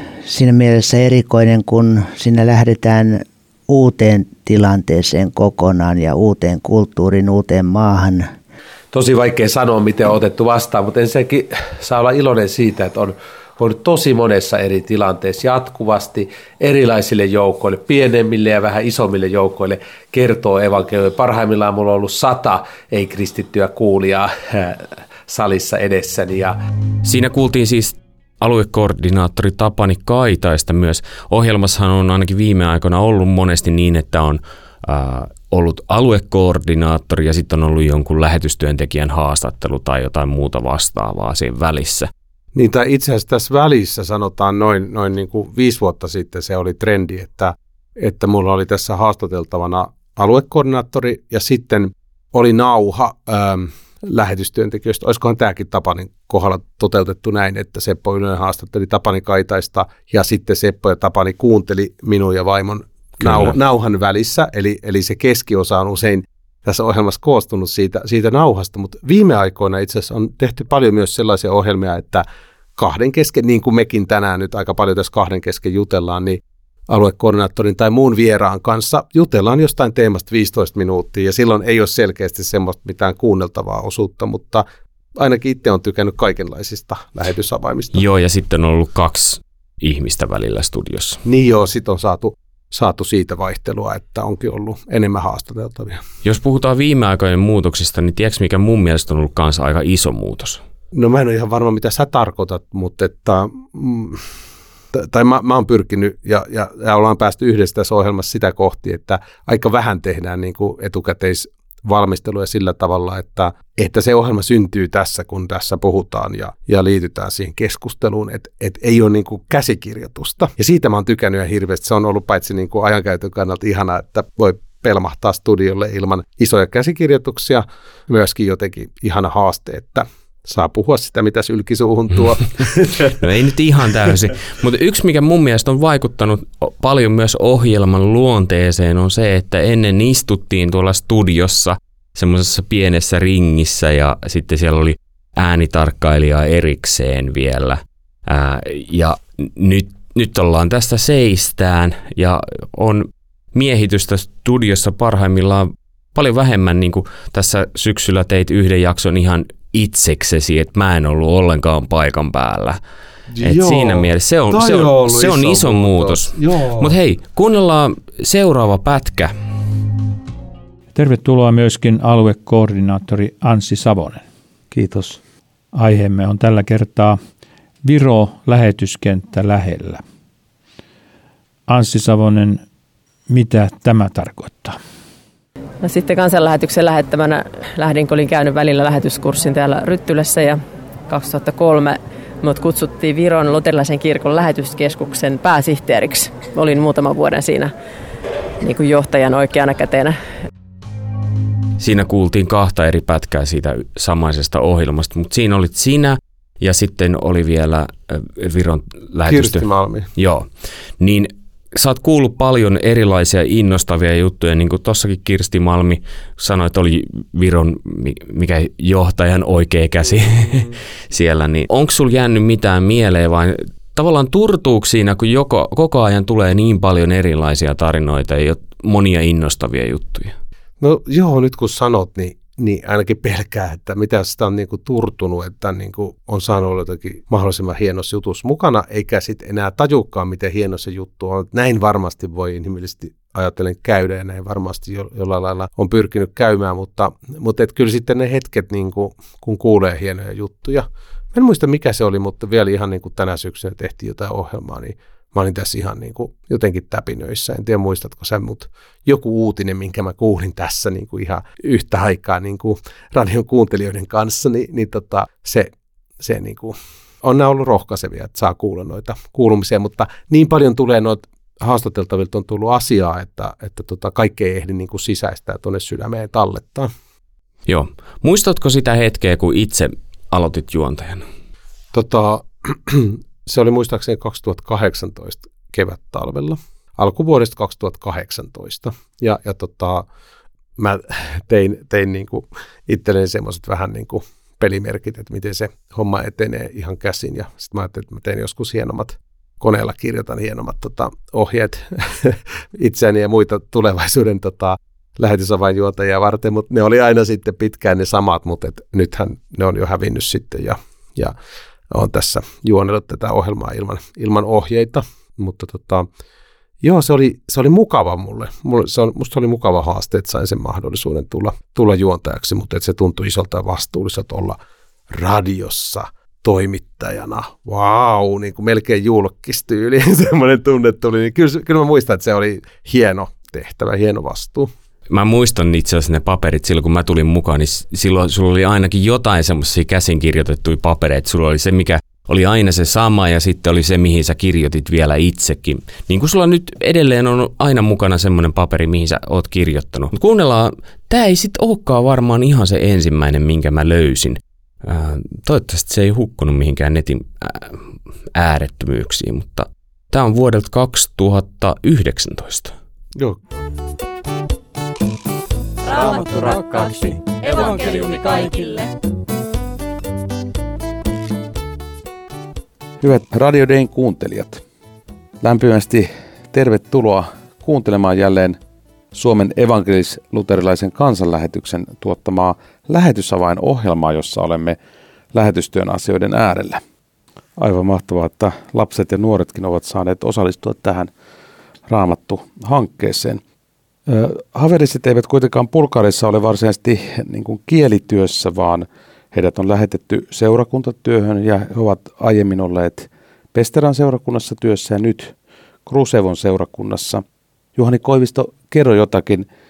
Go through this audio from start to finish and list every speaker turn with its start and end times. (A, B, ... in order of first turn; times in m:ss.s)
0:00.2-0:08.3 A
0:08.9-0:26.6 B
0:27.0-0:42.1 C
0:42.5-1:12.2 B
1:03.2-1:03.5 C
1:12.8-1:24.6 B
1:25.2-1:28.0 B
1:27.9-1:31.2 C
1:31.2-1:36.0 B
1:36.2-1:40.6 C
1:40.9-1:44.2 B
1:44.9-2:13.2 B
2:13.2-2:42.8 C
2:43.3-2:47.0 B
2:43.4-2:49.3 C
2:50.9-2:54.2 D
2:54.7-2:55.2 E
2:55.7-2:57.2 D
2:57.8-3:00.0 D
3:01.7-3:02.6 D
3:03.3-3:04.8 D
3:05.8-3:17.7 F
3:18.6-3:20.2 F
3:21.8-3:29.6 C
3:29.2-3:30.1 B
3:30.2-3:30.4 C
3:31.0-3:50.3 C
3:50.8-4:36.9 B
4:37.7-4:41.2 C
4:41.9-4:50.0 B
4:50.8-5:11.3 B
5:11.9-5:16.1 B
5:16.8-5:24.6 B
5:25.1-5:34.7 B
5:35.1-5:57.8 C
5:58.3-6:02.7 C
6:05.9-6:08.9 G
6:13.0-6:14.6 E
6:15.4-6:18.6 E
6:19.1-6:24.8 E
6:25.3-6:26.8 E
6:27.6-6:31.1 E
6:31.9-6:33.4 E
6:34.1-6:45.3 E
6:45.8-6:47.2 E
6:47.8-6:49.5 E